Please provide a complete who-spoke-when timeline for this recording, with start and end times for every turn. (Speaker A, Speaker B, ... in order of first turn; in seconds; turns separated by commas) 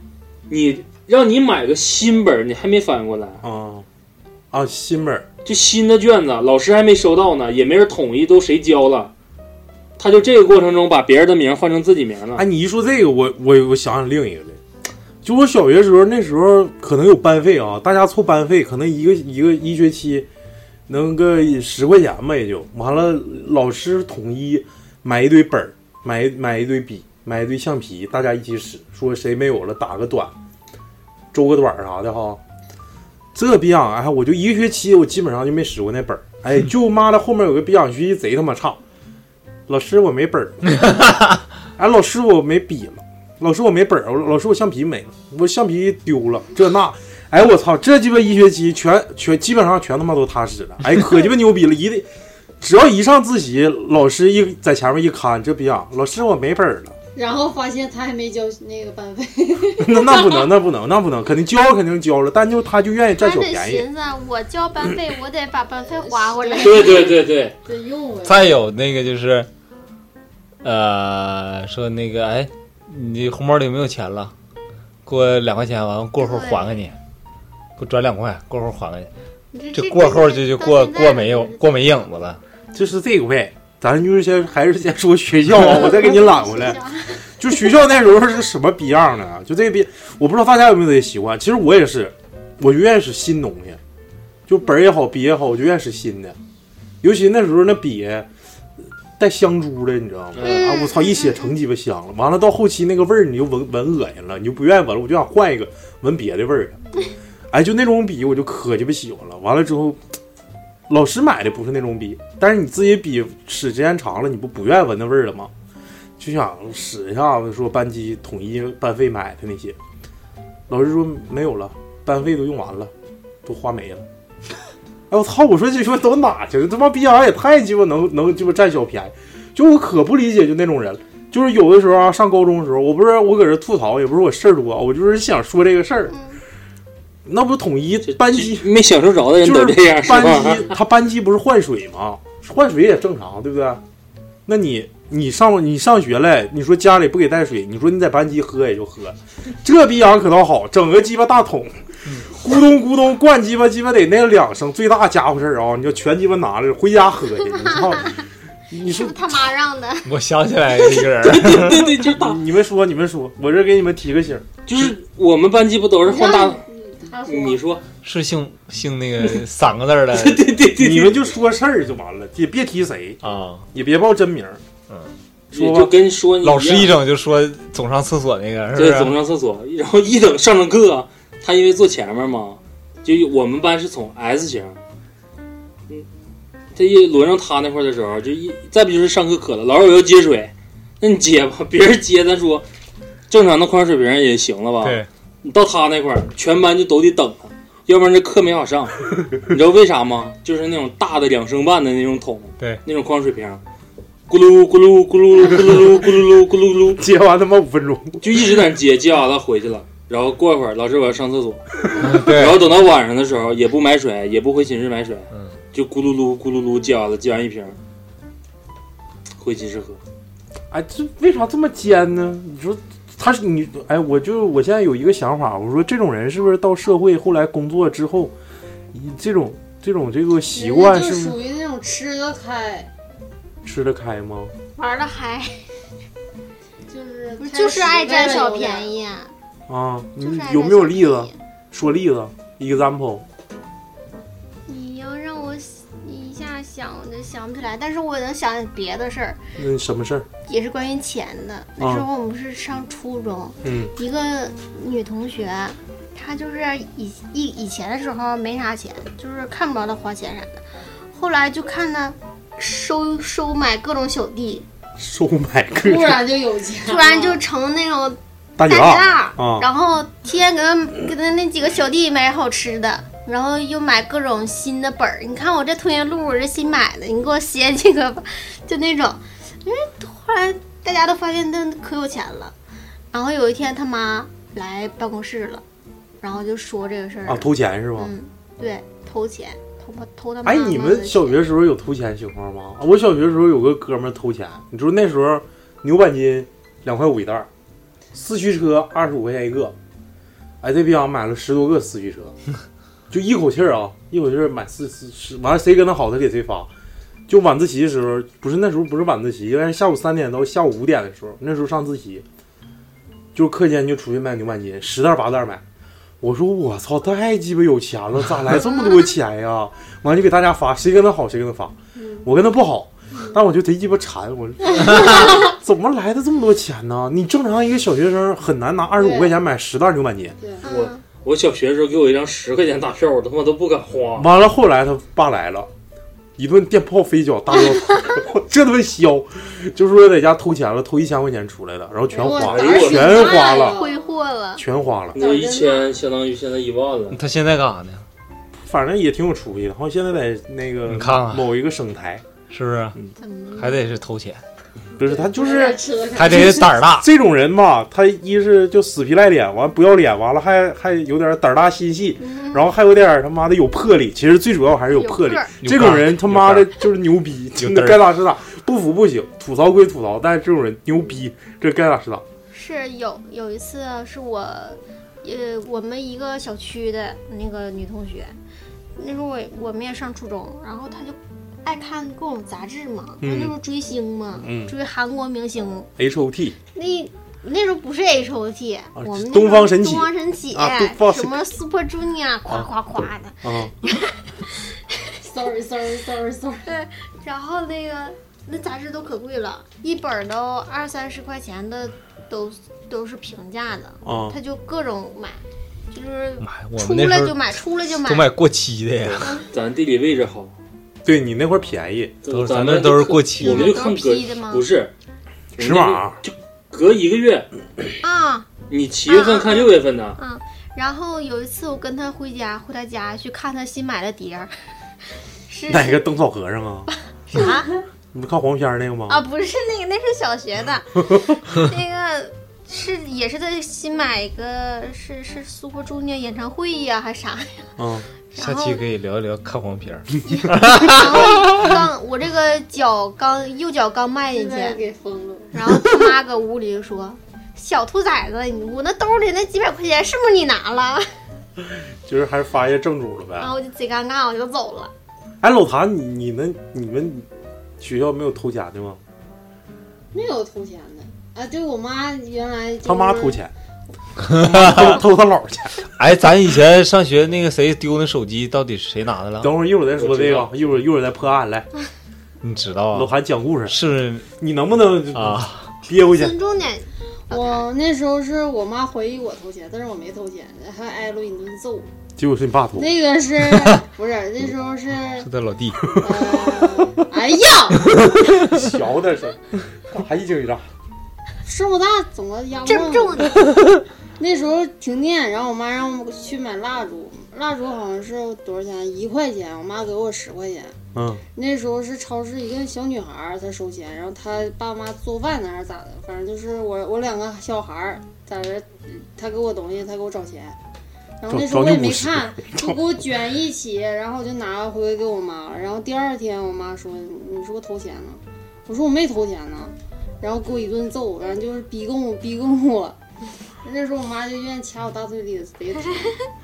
Speaker A: 0.5-3.4, Speaker B: 3.4-3.9, Speaker B: 4.5-5.3, Speaker A: 5.4-9.1, Speaker A: 10.0-12.4, Speaker B: 12.3-14.6, Speaker B: 15.2-20.3, Speaker B: 20.9-30.3, Speaker B: 31.3-32.4, Speaker B: 33.3-38.8, Speaker B: 39.7-41.0, Speaker B: 41.8-52.1, Speaker B: 52.6-57.0, Speaker C: 57.1-60.5, Speaker B: 59.8-63.9, Speaker D: 63.2-67.1, Speaker C: 66.0-68.6, Speaker A: 66.6-67.5, Speaker E: 68.2-69.5, Speaker E: 70.6-74.3, Speaker E: 75.0-77.0, Speaker D: 76.2-76.8, Speaker E: 77.8-79.1, Speaker D: 79.5-82.0, Speaker E: 79.7-82.4, Speaker B: 82.7-86.8, Speaker D: 85.6-87.3, Speaker B: 87.4-93.8, Speaker B: 94.5-96.3, Speaker B: 97.0-98.3, Speaker B: 99.2-106.8, Speaker A: 100.3-100.7, Speaker D: 100.4-101.5, Speaker B: 107.5-110.0, Speaker B: 110.9-115.5, Speaker B: 116.2-119.8, Speaker B: 120.7-122.9, Speaker B: 123.4-124.0, Speaker B: 125.1-136.2, Speaker D: 136.1-136.4, Speaker B: 137.2-138.7, Speaker A: 138.1-140.8, Speaker B: 139.4-143.8, Speaker B: 144.4-159.4, Speaker D: 157.6-158.2, Speaker D: 158.7-160.1, Speaker E: 160.0-161.9, Speaker A: 160.9-162.4, Speaker B: 162.1-164.6, Speaker A: 164.7-166.6, Speaker C: 166.1-167.6, Speaker A: 167.2-167.8, Speaker E: 168.0-170.5, Speaker A: 170.1-171.3, Speaker B: 170.8-173.2, Speaker E: 173.2-173.7, Speaker B: 173.7-174.6, Speaker B: 175.5-175.9, Speaker A: 175.5-177.0, Speaker E: 176.4-179.1, Speaker A: 178.7-184.8, Speaker A: 186.7-192.6, Speaker A: 193.3-203.6, Speaker E: 194.8-195.1, Speaker A: 204.3-207.0, Speaker B: 207.0-208.2, Speaker A: 208.2-217.8, Speaker E: 212.0-212.6, Speaker A: 219.4-220.0, Speaker B: 220.7-228.3, Speaker B: 228.9-231.4, Speaker C: 230.5-232.9, Speaker B: 233.6-234.5, Speaker D: 234.8-235.7, Speaker C: 236.9-238.9, Speaker D: 237.4-239.3, Speaker B: 239.7-243.2, Speaker D: 240.2-241.3, Speaker D: 244.7-249.4, Speaker B: 249.6-250.3, Speaker D: 250.5-264.6, Speaker B: 251.8-252.1, Speaker B: 253.6-253.9, Speaker B: 265.0-266.2, Speaker C: 265.8-267.4, Speaker D: 266.9-282.5, Speaker B: 268.6-269.7, Speaker D: 283.1-285.6, Speaker D: 286.2-291.4, Speaker B: 287.2-288.1, Speaker B: 290.4-297.5, Speaker B: 298.1-299.7, Speaker B: 300.6-302.3, Speaker B: 303.1-306.7, Speaker B: 307.3-312.2, Speaker B: 313.3-315.6, Speaker B: 316.2-330.4, Speaker C: 321.9-322.3, Speaker C: 329.0-329.4, Speaker C: 330.4-330.6, Speaker D: 330.6-331.0, Speaker A: 330.6-334.3, Speaker B: 334.1-335.7, Speaker B: 336.4-343.8, Speaker C: 342.1-344.1, Speaker A: 342.3-343.3, Speaker D: 343.1-344.6, Speaker B: 344.6-345.2, Speaker A: 345.1-347.2, Speaker C: 345.1-345.9, Speaker E: 347.1-348.0, Speaker B: 348.6-352.2, Speaker E: 350.9-351.5, Speaker E: 352.5-353.0, Speaker D: 353.2-353.8, Speaker E: 353.6-354.4, Speaker B: 355.0-372.2, Speaker C: 355.0-356.7, Speaker E: 356.1-357.1, Speaker D: 362.2-362.6, Speaker D: 364.9-365.6, Speaker E: 365.6-366.7, Speaker E: 367.6-368.0, Speaker D: 372.5-378.4, Speaker D: 378.9-385.9, Speaker B: 383.2-383.6, Speaker B: 384.4-384.7, Speaker B: 386.0-386.6, Speaker D: 386.7-394.1, Speaker B: 389.0-391.4, Speaker B: 393.4-393.7, Speaker C: 395.2-396.7, Speaker D: 396.6-408.3, Speaker B: 404.0-404.4, Speaker E: 406.4-409.4, Speaker A: 409.5-410.5, Speaker B: 411.0-412.1, Speaker A: 412.2-414.9, Speaker E: 412.3-413.7, Speaker D: 413.4-414.6, Speaker A: 415.6-417.5, Speaker B: 415.6-416.2, Speaker D: 418.0-418.5, Speaker A: 418.7-420.2, Speaker D: 419.1-424.5, Speaker D: 425.5-426.0, Speaker B: 425.7-426.9, Speaker D: 427.3-427.8, Speaker B: 428.1-429.2, Speaker D: 429.1-437.7, Speaker B: 437.8-438.1, Speaker D: 438.3-438.8, Speaker E: 438.4-441.3, Speaker D: 440.2-444.8, Speaker C: 444.3-445.5, Speaker D: 445.5-451.1, Speaker B: 452.0-453.5, Speaker D: 453.4-454.9, Speaker B: 455.4-457.3, Speaker B: 457.8-459.0, Speaker C: 460.1-463.4, Speaker B: 462.8-463.5, Speaker E: 464.2-465.0, Speaker B: 464.3-465.8, Speaker E: 466.0-469.5, Speaker B: 469.4-471.7, Speaker A: 470.0-470.5, Speaker E: 472.4-473.1, Speaker B: 472.9-473.8, Speaker E: 473.6-474.3, Speaker B: 474.4-476.4, Speaker E: 475.1-475.7, Speaker D: 476.0-477.6, Speaker C: 477.3-481.9, Speaker B: 482.2-482.9, Speaker C: 482.8-485.3, Speaker E: 485.2-485.9, Speaker C: 485.9-487.9, Speaker B: 488.4-490.7, Speaker C: 491.4-493.2, Speaker D: 492.6-493.5, Speaker C: 494.2-500.8, Speaker B: 500.9-501.2, Speaker C: 501.3-510.6, Speaker C: 511.2-523.0, Speaker B: 511.3-512.8, Speaker C: 523.6-526.1